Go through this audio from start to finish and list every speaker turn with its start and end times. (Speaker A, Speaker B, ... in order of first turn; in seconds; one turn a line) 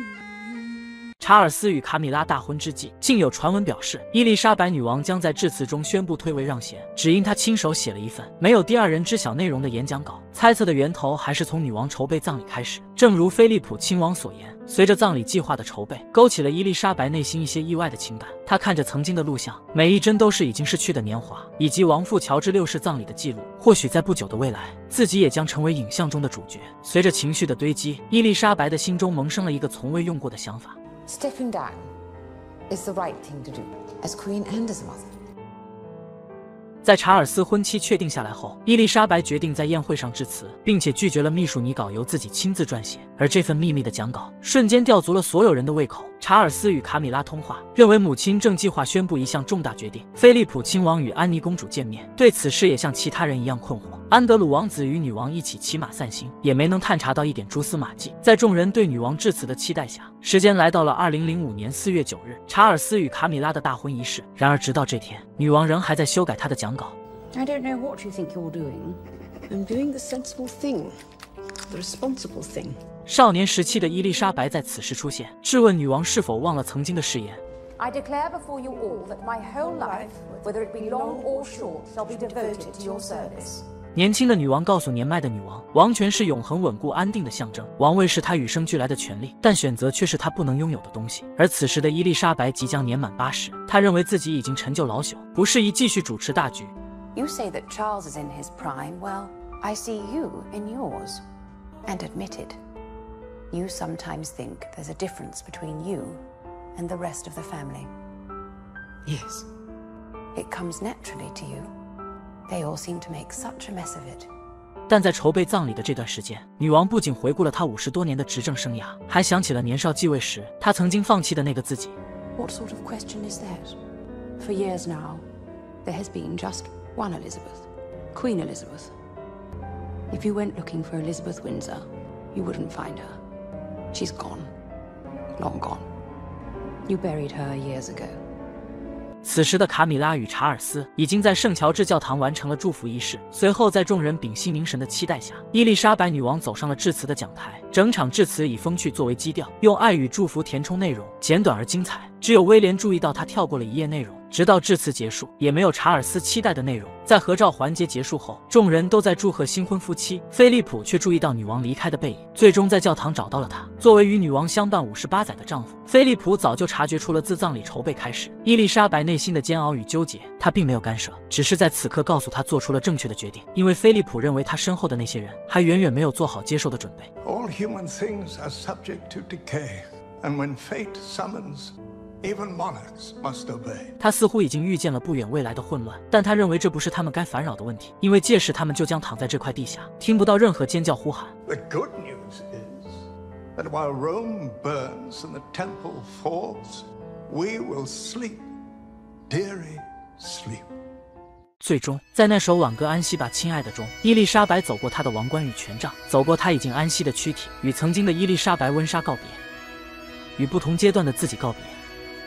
Speaker A: 1.2-30.8
Speaker B: 31.0-31.8
Speaker B: 32.7-35.1
Speaker A: 36.8-66.9
Speaker B: 67.3-69.0
Speaker C: 69.5-71.0
Speaker C: 71.7-72.8
Speaker A: 73.0-77.4
Speaker B: 77.8-83.6
Speaker C: 79.5-83.5
Speaker A: 83.9-96.7
Speaker B: 97.1-101.2
Speaker B: 101.8-102.6
Speaker B: 103.5-106.2
Speaker B: 106.8-107.9
Speaker C: 109.0-109.5
Speaker B: 110.3-111.7
Speaker B: 112.5-114.3
Speaker A: 114.9-121.9
Speaker B: 122.4-123.8
Speaker B: 124.4-125.2
Speaker B: 125.8-128.9
Speaker B: 130.1-133.2
Speaker B: 133.9-134.5
Speaker B: 135.3-135.9
Speaker B: 136.8-138.2
Speaker A: 139.2-177.1
Speaker D: 177.2-183.9
Speaker A: 184.0-191.3
Speaker D: 191.4-198.5
Speaker D: 199.3-200.7
Speaker A: 201.6-209.4
Speaker A: 210.4-211.8